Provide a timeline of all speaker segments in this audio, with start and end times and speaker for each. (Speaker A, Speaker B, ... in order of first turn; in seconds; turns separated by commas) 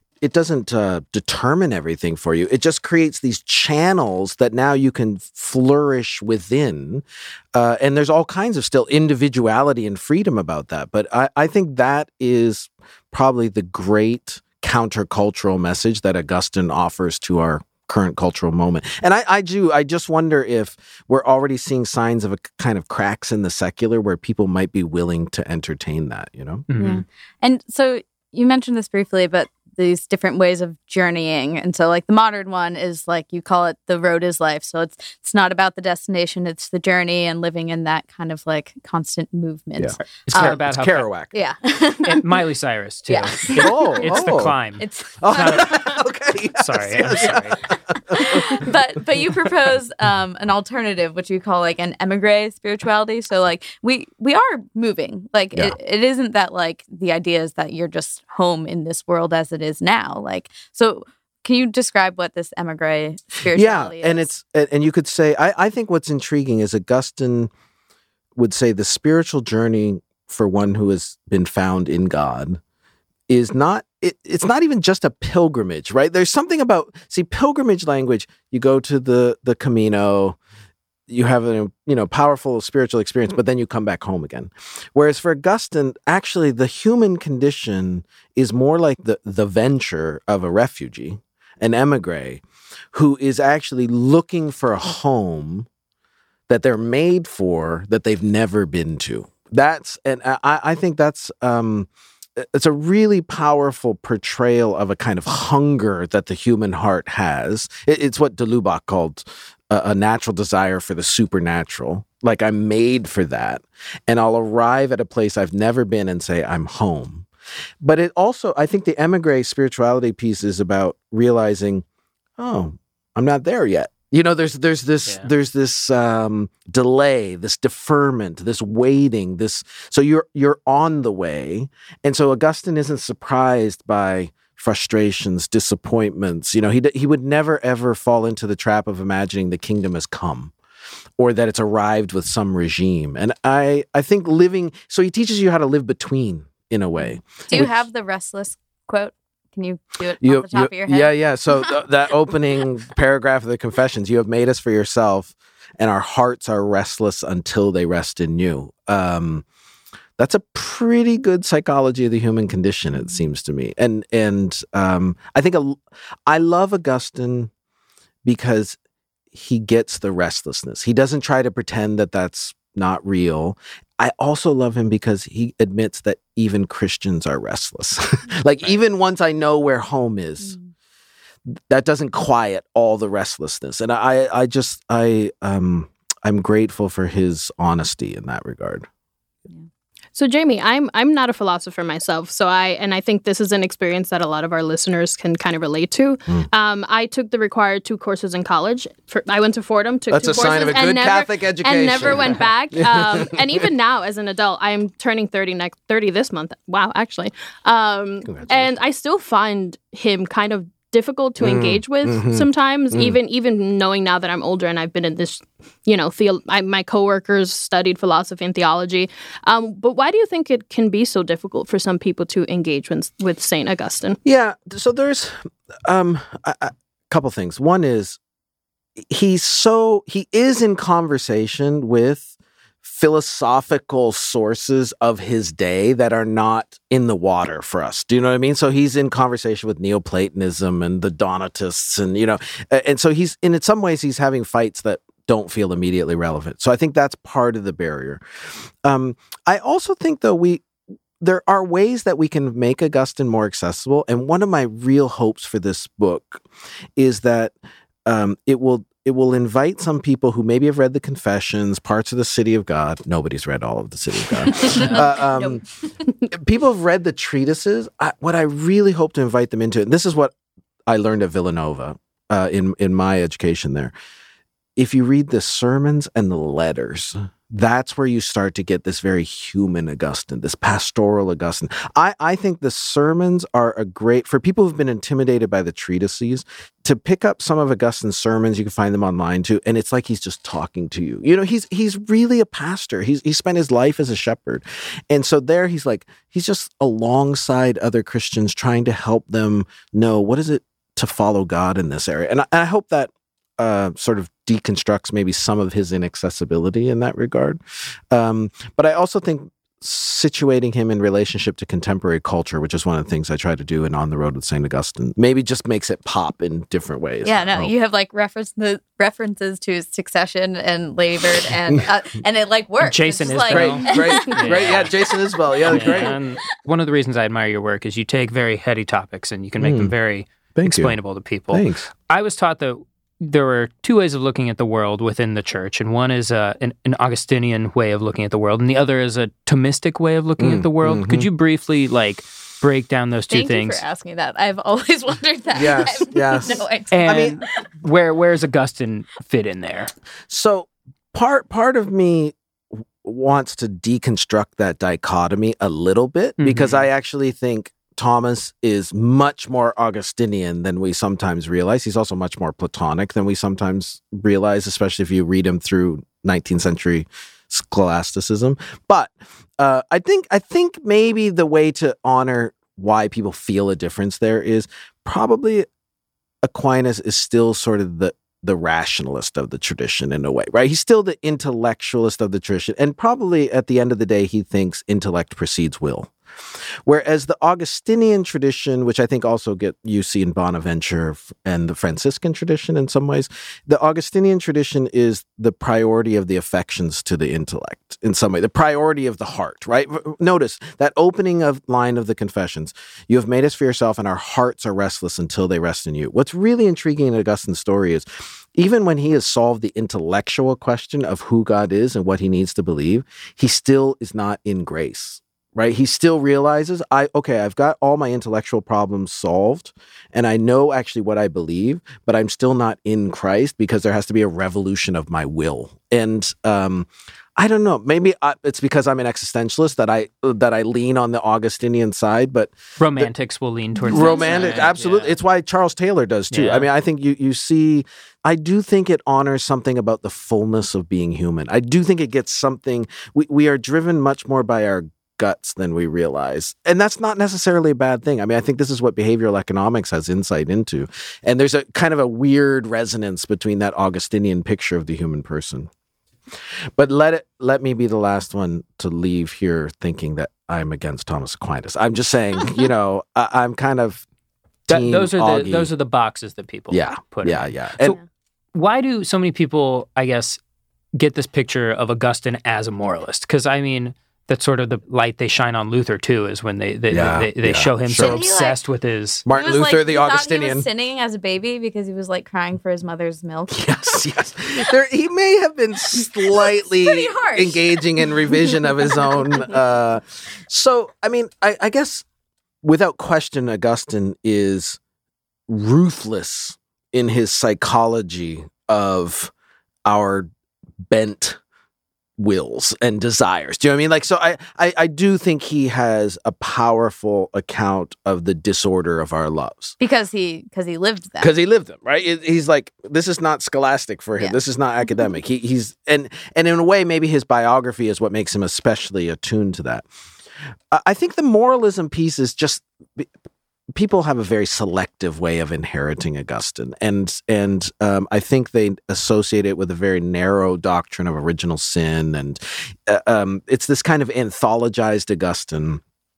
Speaker A: 0.2-26.7, Speaker B: 26.7-27.0, Speaker C: 26.8-40.6, Speaker A: 39.8-41.3, Speaker B: 40.3-41.1, Speaker C: 41.3-42.3, Speaker B: 42.0-45.9, Speaker C: 43.1-44.0, Speaker A: 43.5-44.5, Speaker C: 44.8-45.9, Speaker A: 45.2-48.7, Speaker B: 46.6-47.6, Speaker C: 48.1-64.3, Speaker A: 63.5-67.5, Speaker A: 68.3-72.6, Speaker A: 73.3-80.4, Speaker A: 81.1-95.7, Speaker A: 96.5-117.3, Speaker A: 117.8-121.8, Speaker A: 122.4-140.5, Speaker A: 141.2-147.8, Speaker C: 147.5-151.1, Speaker A: 150.2-159.4, Speaker A: 160.2-167.5, Speaker A: 168.2-168.8, Speaker A: 169.3-180.6, Speaker A: 181.4-188.9, Speaker D: 190.1-224.2, Speaker A: 200.1-203.6, Speaker A: 208.3-208.7, Speaker A: 211.4-213.2, Speaker A: 224.2-228.2, Speaker A: 229.0-232.3, Speaker A: 232.8-248.2, Speaker A: 248.8-250.7, Speaker A: 251.2-256.4, Speaker A: 256.9-257.5, Speaker A: 258.1-265.6, Speaker C: 264.5-265.6, Speaker B: 264.6-265.0, Speaker A: 266.3-270.3, Speaker A: 270.9-273.9, Speaker A: 274.8-307.6, Speaker A: 308.1-317.7, Speaker C: 317.2-326.4, Speaker B: 322.8-324.9, Speaker A: 323.5-326.2, Speaker B: 325.7-343.8, Speaker A: 329.6-329.9, Speaker A: 330.5-331.0, Speaker A: 331.5-331.9, Speaker A: 340.4-341.3, Speaker C: 343.3-347.3, Speaker A: 345.5-347.4, Speaker B: 346.9-349.9, Speaker A: 350.3-375.6, Speaker B: 356.4-356.9, Speaker A: 376.4-386.1, Speaker A: 386.8-433.1, Speaker B: 432.8-435.2, Speaker C: 433.8-434.7, Speaker A: 433.9-455.7, Speaker B: 436.3-436.6, Speaker A: 456.8-464.0, Speaker B: 464.7-468.0, Speaker A: 464.7-465.7, Speaker A: 466.7-468.0, Speaker B: 468.5-470.4, Speaker B: 470.9-479.2, Speaker A: 476.9-478.3, Speaker C: 477.9-478.6, Speaker A: 479.2-480.7, Speaker C: 479.3-484.0, Speaker A: 483.5-492.0, Speaker C: 486.0-489.3, Speaker A: 492.6-494.8, Speaker A: 495.5-499.3, Speaker A: 499.9-500.3, Speaker A: 500.9-501.4, Speaker A: 502.2-509.8, Speaker C: 509.8-511.3, Speaker A: 511.2-519.9, Speaker A: 520.7-523.1, Speaker A: 523.7-535.8